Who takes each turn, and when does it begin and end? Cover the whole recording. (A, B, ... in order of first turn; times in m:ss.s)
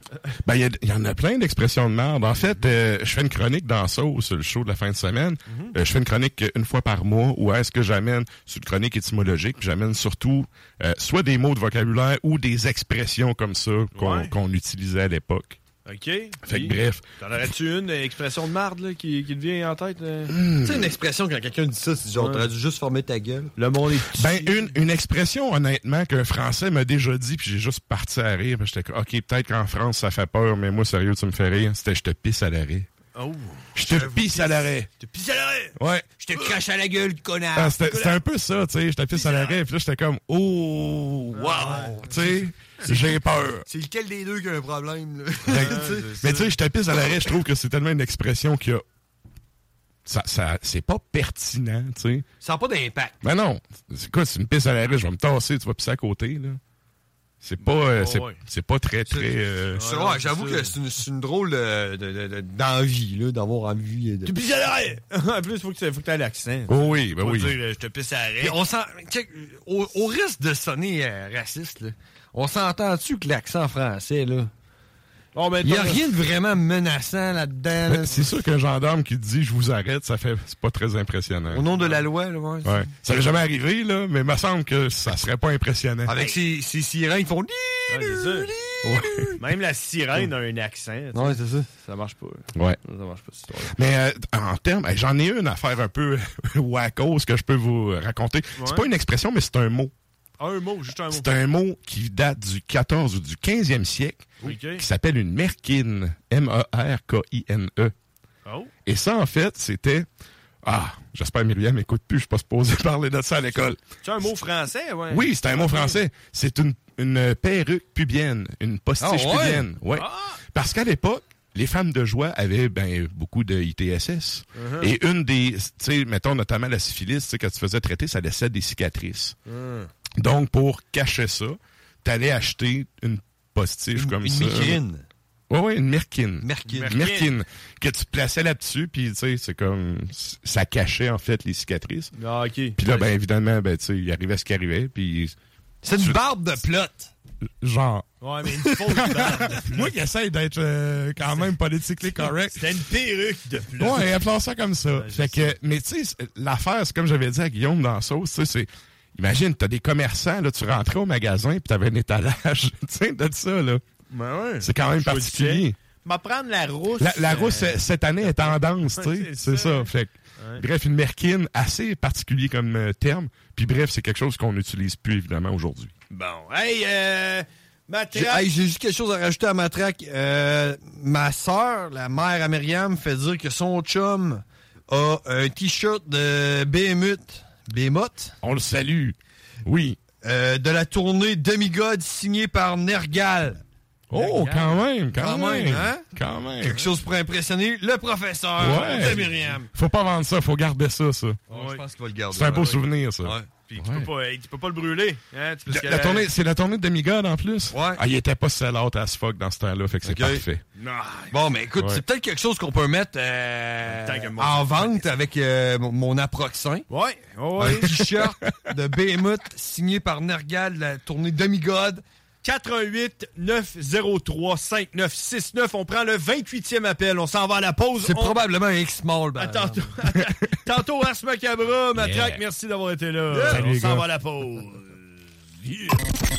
0:00.4-0:15.6 A
0:02.4-0:02.7 B
0:05.5-0:05.8 B
0:13.9-0:14.4 B
0:15.8-0:20.4 B
0:16.5-0:17.0 A
0:20.3-0:20.9 A
0:20.6-0:23.5 C
0:22.2-0:22.5 B
0:23.6-0:24.8 B
0:24.1-0:32.9 A
0:33.2-0:35.8 B
0:33.8-0:34.9 A
0:34.2-0:34.4 C
0:35.8-0:36.2 A
0:36.2-0:37.8 C
0:36.3-0:36.6 B
0:37.5-0:43.7 A
0:37.8-0:38.2 B
0:39.1-0:39.6 B
0:41.3-0:42.0 B
0:41.4-0:43.1 C
0:42.8-0:43.2 B
0:43.6-0:46.3 C
0:45.5-0:48.8 A
0:45.5-0:46.5 B
0:50.1-0:52.3 A
0:52.4-0:53.2 C
0:53.2-0:56.6 A
0:57.4-0:59.8 A
0:57.6-0:58.4 B
0:59.1-1:04.5 C
0:59.2-1:00.8 B
1:04.2-1:08.6 B
1:06.7-1:07.6 A
1:08.4-1:14.5 C
1:15.3-1:16.0 B
1:15.6-1:18.3 C
1:17.9-1:21.7 A
1:21.5-1:22.9 C
1:21.7-1:22.0 B
1:22.6-1:26.2 A
1:26.1-1:29.4 C
1:27.9-1:28.5 B
1:28.8-1:29.3 A
1:29.4-1:33.8 B
1:31.1-1:31.7 C
1:33.7-1:39.9 A
1:38.6-1:38.9 B
1:40.4-1:41.3 B
1:41.1-1:47.9 A
1:44.4-1:44.9 B
1:48.5-1:48.7 B
1:48.9-1:50.1 A
1:50.6-1:53.8 A
1:54.0-1:56.0 B
1:55.1-2:09.4 A
1:59.0-1:59.7 C
1:59.9-2:00.4 B
2:04.5-2:04.9 B
2:09.5-2:09.9 B
2:10.2-2:14.8 A
2:14.0-2:15.1 C
2:15.5-2:22.1 A
2:16.4-2:17.0 C
2:16.6-2:17.4 B
2:22.1-2:23.1 B
2:22.8-2:25.4 A
2:25.8-2:27.1 C
2:25.9-2:26.2 A
2:27.6-2:28.1 A
2:28.2-2:30.0 B
2:29.0-2:32.8 A
2:31.2-2:34.1 B
2:33.8-2:43.8 A
2:34.9-2:35.6 B
2:44.1-2:50.6 B
2:44.6-2:45.8 A
2:47.0-2:55.9 A
2:56.1-2:58.5 B
2:58.1-3:08.4 C
3:08.4-3:10.0 A
3:10.2-3:13.6 C
3:14.1-3:14.9 B
3:14.1-3:16.9 A
3:14.2-3:14.5 C
3:15.1-3:16.0 C
3:15.6-3:16.1 B
3:16.6-3:19.7 C
3:16.6-3:16.9 B
3:18.6-3:21.4 A
3:18.6-3:19.6 B
3:21.5-3:21.8 B
3:21.5-3:23.5 C
3:22.3-3:24.1 A
3:22.5-3:22.8 B
3:23.7-3:26.3 B
3:25.7-3:30.6 A
3:27.7-3:28.0 C
3:30.0-3:30.4 C
3:30.7-3:32.0 B
3:31.3-3:36.9 C
3:33.9-3:35.1 B
3:36.9-3:38.0 B
3:37.6-3:42.0 C
3:42.4-3:48.4 B
3:48.0-3:49.9 C
3:49.4-3:55.0 B
3:52.0-3:52.4 A
3:53.3-3:53.8 C
3:53.5-3:54.0 A
3:55.6-3:56.0 B